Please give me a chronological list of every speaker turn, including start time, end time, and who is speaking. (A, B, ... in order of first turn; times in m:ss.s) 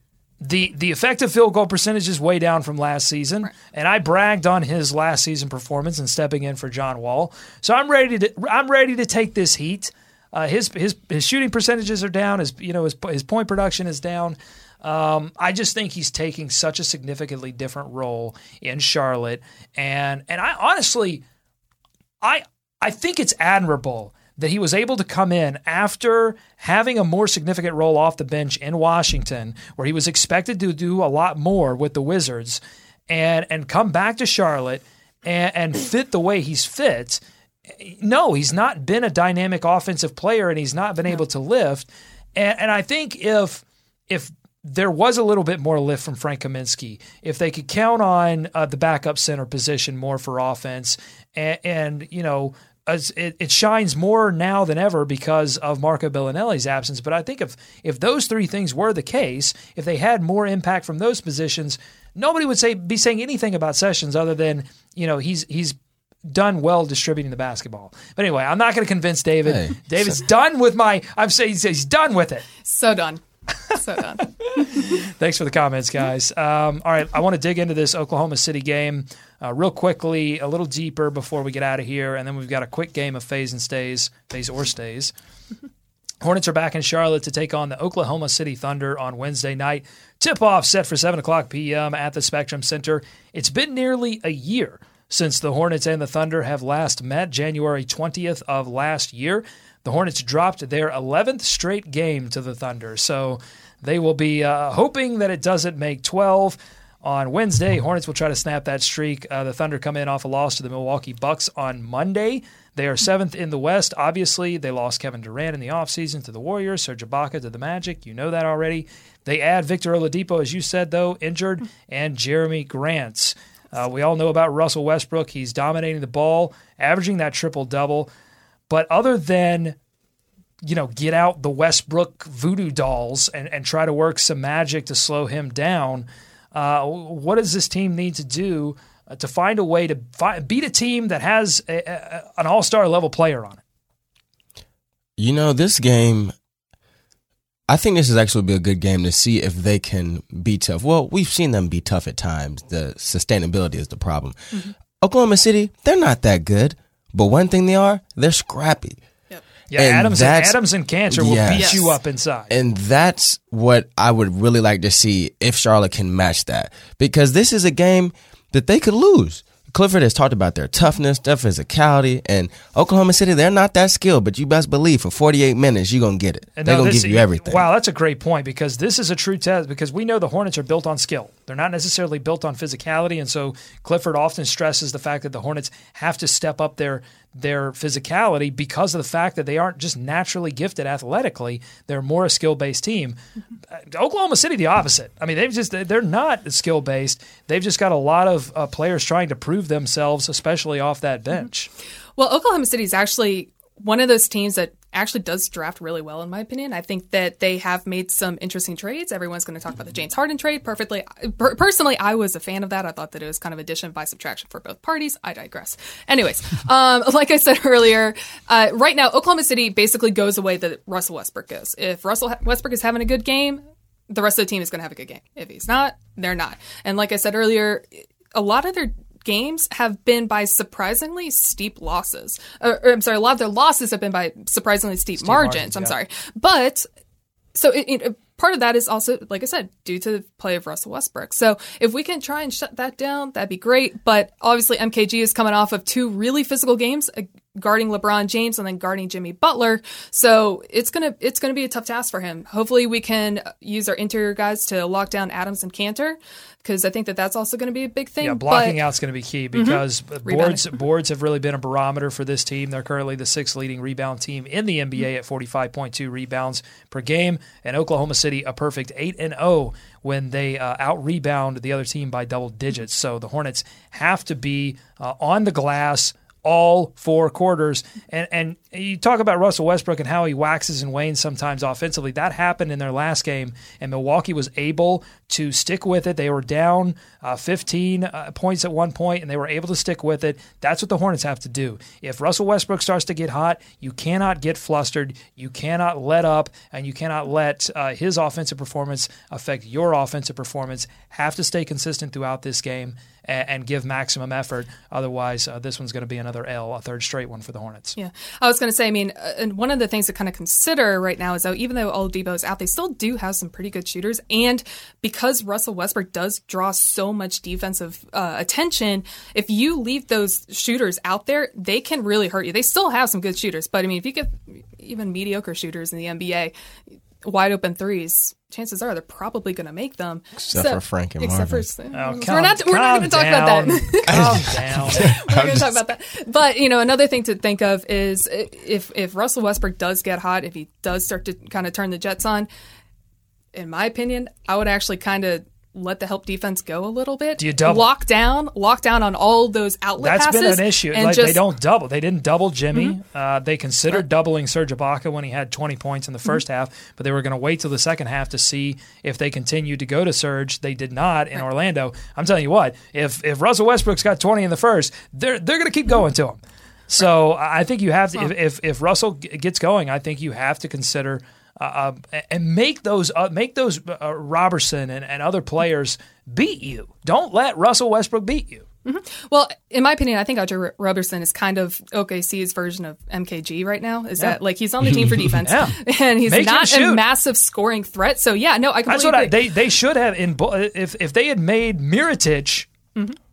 0:00.4-0:21.2 A
0:22.2-0:37.2 A
0:37.8-1:05.8 A
1:06.3-1:12.4 A
1:09.4-1:09.8 B
1:12.6-1:13.2 C
1:13.8-1:14.7 C
1:14.4-1:25.1 A
1:26.2-2:08.1 A
2:08.7-2:09.8 A
2:10.6-2:23.6 A
2:25.2-2:26.3 B
2:27.7-2:39.0 B
2:39.7-2:42.5 A
2:39.8-2:41.9 B
2:41.6-2:41.9 C
2:42.5-2:57.6 B
2:56.6-3:13.2 A
3:13.8-3:21.7 A
3:22.2-3:56.9 C
3:55.2-3:56.0 A
3:57.6-4:18.8 C
4:18.2-5:07.9 A
4:19.5-4:20.8 C
5:08.0-5:26.5 C
5:27.2-5:42.5 C
5:30.4-5:31.7 B
5:31.9-5:35.1 A
5:34.1-5:35.8 B
5:43.5-5:51.4 C
5:47.4-5:47.9 A
5:50.0-6:18.6 A
6:18.8-6:29.4 C
6:24.9-6:25.3 B
6:25.4-6:27.0 A
6:28.9-6:32.7 A